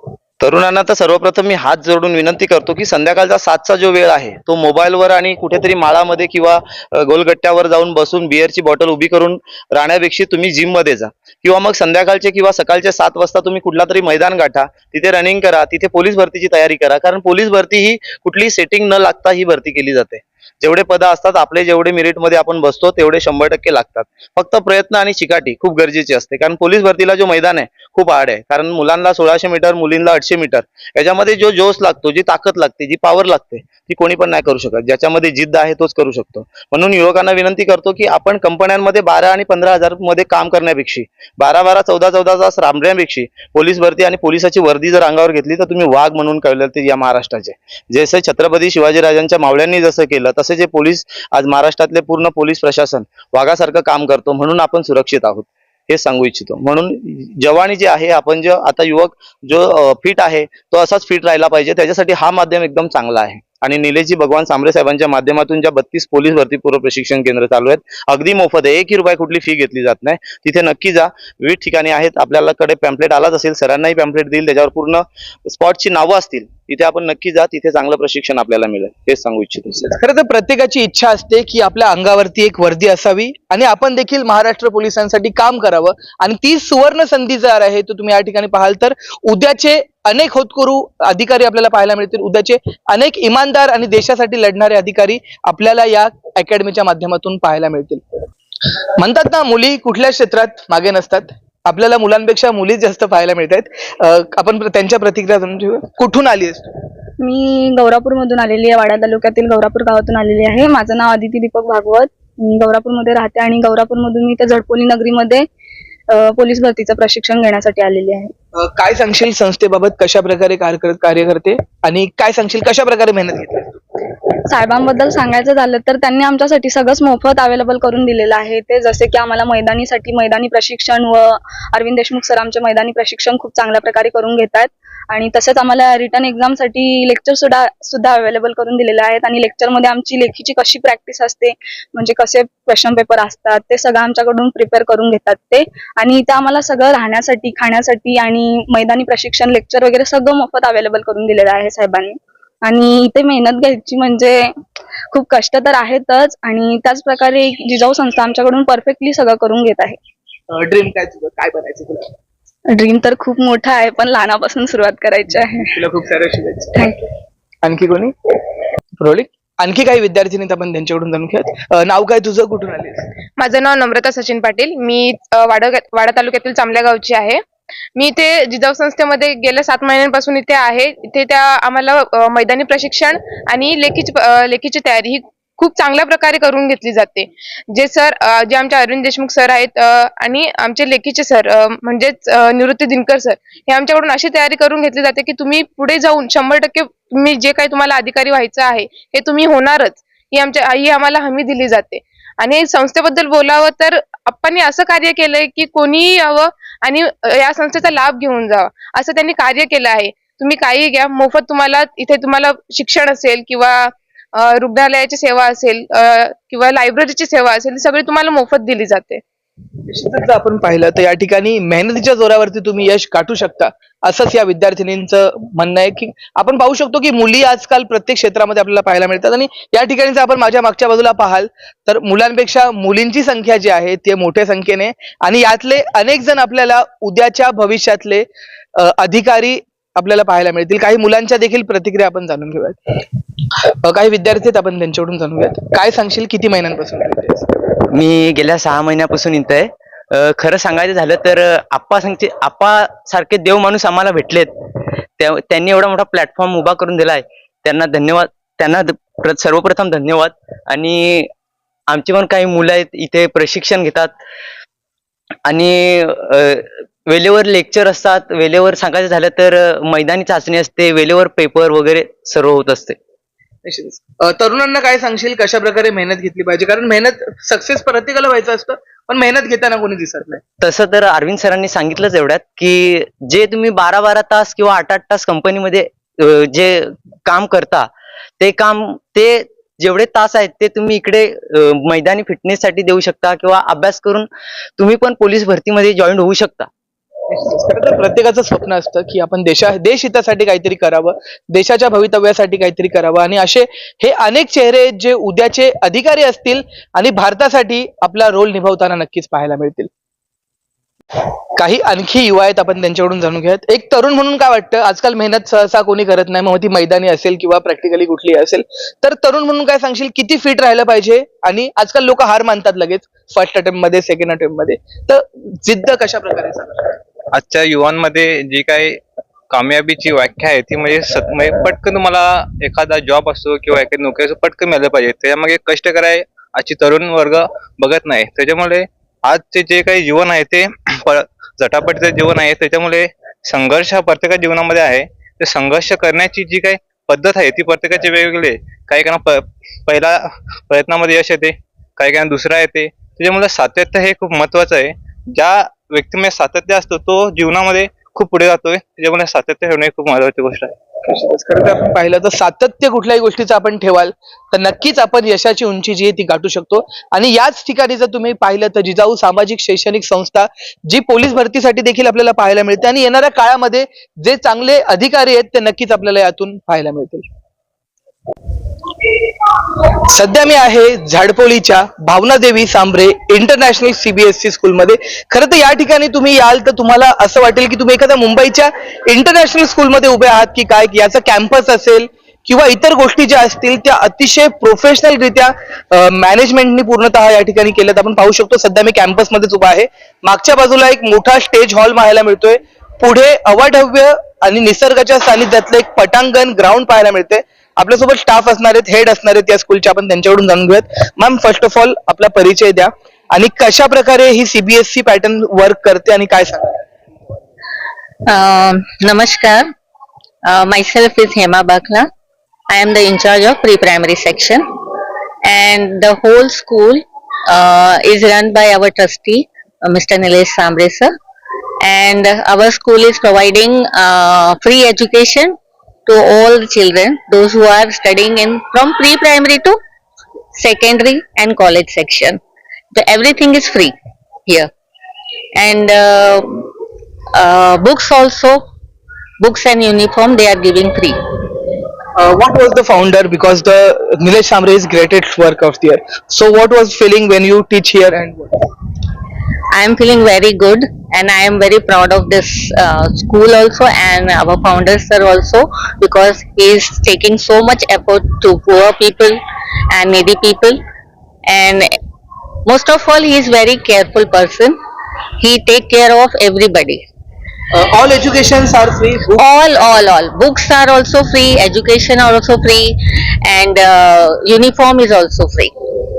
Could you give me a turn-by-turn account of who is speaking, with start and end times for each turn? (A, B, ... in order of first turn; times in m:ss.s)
0:00.4-1:19.9 A
1:19.9-1:38.0 B
1:39.0-1:46.7 B
1:47.2-1:55.4 C
1:56.1-1:58.3 C
1:58.6-2:03.8 B
2:04.5-2:34.5 C
2:35.1-2:40.0 C
2:40.5-2:42.1 B
2:42.7-2:45.8 C
2:45.7-2:46.7 B
2:46.8-2:47.0 C
2:47.6-2:48.1 B
2:49.0-2:53.1 B
2:53.4-2:57.4 D
2:58.0-3:39.2 D
3:39.9-3:58.2 B
3:58.8-4:03.0 B
4:03.8-4:07.5 B
4:07.9-4:14.5 E
4:15.2-4:21.3 E
4:21.9-4:24.1 E
4:25.4-4:33.0 E
4:33.6-4:40.4 B
4:40.6-4:47.9 E
4:48.4-4:56.7 E
4:57.3-5:09.9 B
5:11.6-5:27.0 B
5:27.3-6:00.8 F
6:01.0-6:17.2 B
6:20.1-6:56.8 B
6:58.3-6:59.7 G
7:00.4-7:02.1 G
7:02.7-7:04.6 G
7:05.4-7:11.1 G
7:11.8-7:15.6 G
7:16.1-7:19.8 G
7:20.5-7:22.4 G
7:22.9-7:23.9 G
7:25.5-7:26.7 G
7:27.3-7:28.6 G
7:29.4-7:31.2 G
7:32.2-7:38.7 B
7:39.7-7:49.4 G
7:49.9-7:50.8 G
7:51.5-7:51.9 G
7:52.6-7:54.7 G
7:55.4-7:57.0 G
7:57.7-7:59.4 B
7:59.4-8:05.7 G